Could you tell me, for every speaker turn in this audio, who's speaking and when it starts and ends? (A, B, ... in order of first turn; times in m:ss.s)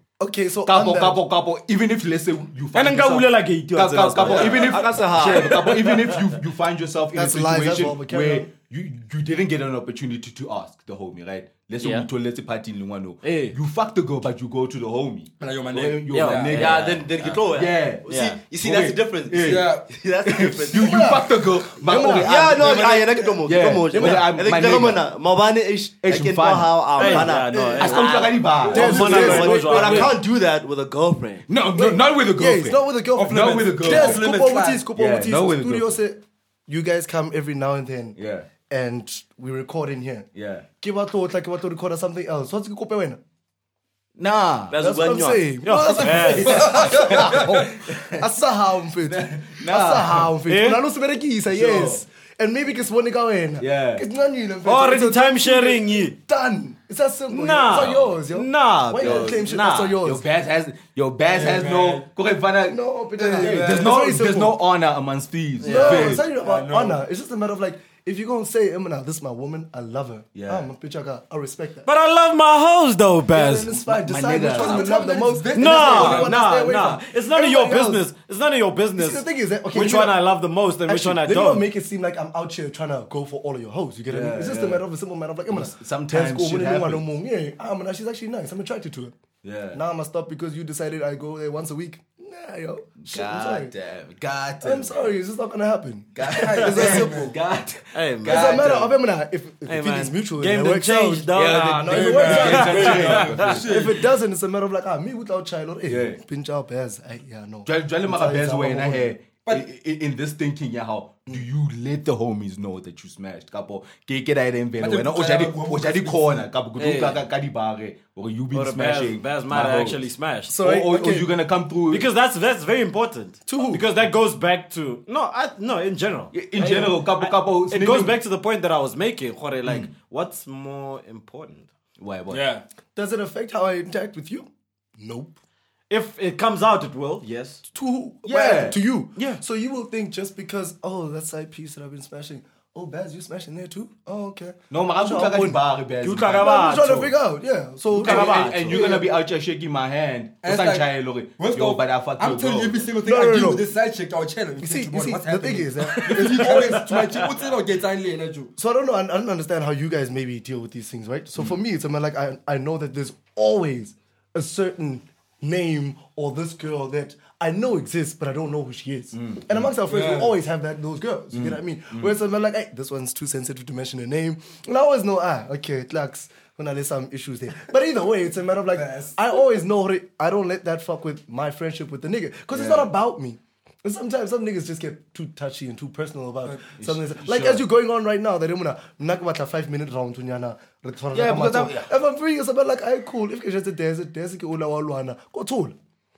0:00.2-0:01.2 A
0:00.7-0:18.0 B
0:02.7-0:04.8 C
0:04.2-0:05.7 D
0:05.3-0:06.2 C
0:07.1-0:08.5 A
0:13.2-0:13.6 C
0:15.4-0:16.7 E
0:16.1-0:16.9 C
0:16.5-0:21.2 D
0:18.1-0:18.4 C
0:18.6-0:19.7 B
0:19.4-0:19.9 E
0:20.2-0:22.9 B
0:20.7-0:24.3 A
0:22.0-0:31.5 D
0:23.4-0:25.0 B
0:26.0-0:30.2 B
0:27.0-0:28.1 C
0:27.0-0:27.8 A
0:28.6-0:30.2 C
0:28.7-0:30.1 A
0:31.5-0:34.3 B
0:31.8-0:40.3 A
0:33.2-0:34.9 E
0:34.9-0:36.0 B
0:38.2-0:38.5 B
0:40.3-0:40.7 B
0:40.8-0:43.2 A
0:44.2-0:44.8 B
0:44.7-0:45.6 D
0:44.8-1:00.2 A
0:45.6-0:46.7 C
0:46.4-0:48.2 B
0:46.5-0:47.6 E
0:49.0-0:50.3 B
0:50.5-0:50.8 C
0:51.5-0:52.0 B
0:53.6-0:54.1 B
0:54.6-0:56.2 C
0:57.3-0:59.8 C
0:57.7-0:58.2 B
0:59.0-1:06.3 B
1:01.3-1:02.1 E
1:02.7-1:04.6 A
1:03.3-1:04.0 E
1:05.6-1:11.9 A
1:05.6-1:06.1 C
1:05.6-1:07.0 E
1:10.4-1:10.7 B
1:11.8-1:13.8 C
1:13.3-1:18.1 A
1:13.8-1:14.9 B
1:14.5-1:16.3 E
1:15.5-1:21.7 C
1:19.0-1:20.2 A
1:20.9-1:29.2 A
1:24.1-1:24.8 B
1:25.5-1:27.1 B
1:29.4-1:29.8 B
1:29.7-1:33.7 A
1:33.0-1:35.2 B
1:34.6-1:37.4 A
1:36.2-1:39.0 B
1:36.4-1:37.4 E
1:37.9-1:38.6 C
1:38.3-1:49.1 A
1:39.7-1:43.6 C
1:41.3-1:43.9 B
1:41.9-1:44.1 E
1:45.8-1:46.2 B
1:47.6-2:00.0 B
1:54.8-1:56.5 E
1:56.8-1:57.2 C
1:58.5-2:00.6 C
2:00.5-2:01.3 A
2:00.6-2:02.1 B
2:01.9-2:11.7 C
2:03.5-2:03.9 A
2:06.3-2:08.2 B
2:09.6-2:09.9 B
2:12.0-2:12.5 B
2:12.3-2:12.6 E
2:12.9-2:15.4 A
2:15.9-2:17.6 C
2:17.7-2:25.6 A
2:18.3-2:18.8 B
2:19.2-2:19.4 C
2:24.7-2:26.5 B
2:26.0-2:27.1 C
2:26.4-2:29.1 A
2:27.9-2:28.9 C
2:27.9-2:32.9 B
2:30.4-2:38.5 E
2:33.0-2:33.7 A
2:34.6-2:37.2 A
2:35.9-2:37.2 C
2:38.6-3:15.8 A
2:49.1-2:49.7 B
2:49.9-2:50.4 E
2:51.3-2:52.2 B
2:58.8-2:59.2 E
3:02.5-3:02.9 B
3:06.4-3:06.8 E
3:06.8-3:07.7 B
3:11.1-3:11.9 B